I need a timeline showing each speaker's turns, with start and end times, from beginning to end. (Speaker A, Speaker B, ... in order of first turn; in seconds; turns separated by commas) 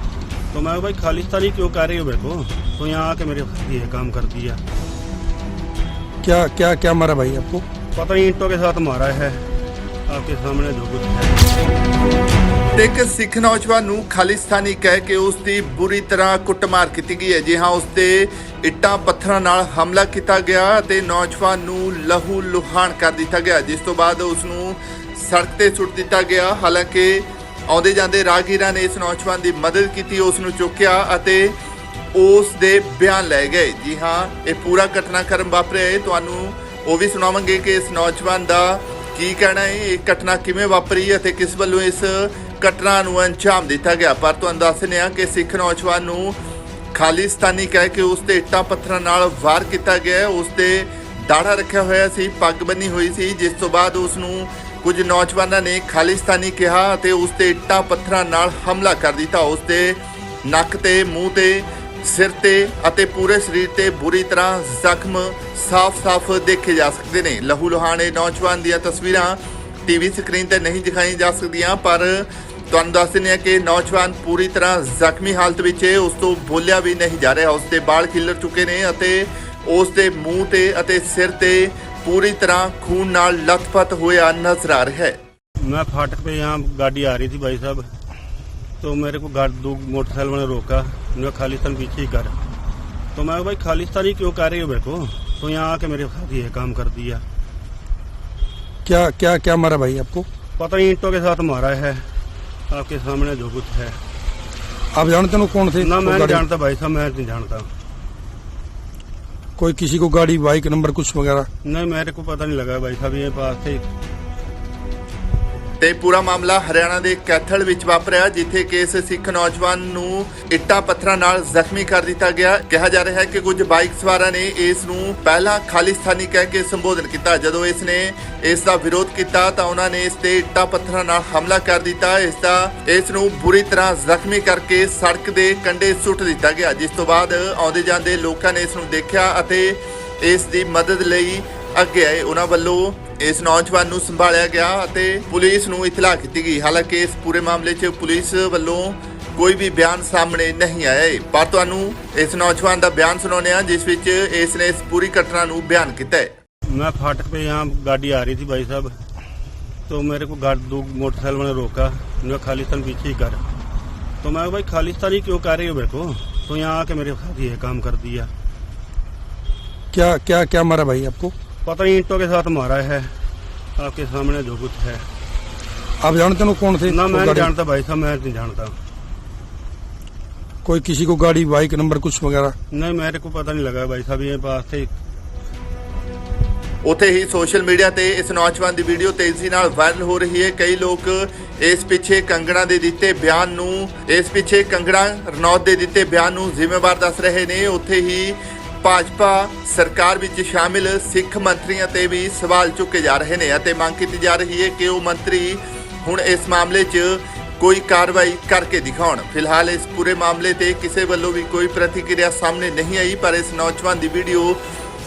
Speaker A: 0.5-4.6, Speaker B: 6.2-7.6, Speaker A: 7.9-9.4, Speaker A: 10.1-11.4, Speaker C: 12.8-31.6, Speaker C: 32.1-46.4, Speaker C: 46.9-85.2, Speaker A: 85.6-87.9, Speaker A: 88.8-92.4, Speaker A: 93.1-97.2, Speaker B: 98.8-100.2, Speaker A: 100.6-102.1, Speaker A: 102.7-104.0, Speaker B: 104.9-106.4, Speaker A: 105.8-107.7, Speaker B: 109.6-111.5, Speaker A: 111.6-113.8, Speaker C: 115.8-156.3, Speaker A: 156.7-158.9, Speaker A: 159.9-163.4, Speaker A: 164.2-168.3, Speaker B: 169.9-171.3, Speaker A: 171.6-173.1, Speaker A: 173.8-175.1, Speaker B: 176.0-177.5, Speaker A: 176.8-178.8, Speaker B: 180.6-182.6, Speaker A: 182.7-184.9, Speaker C: 186.8-214.6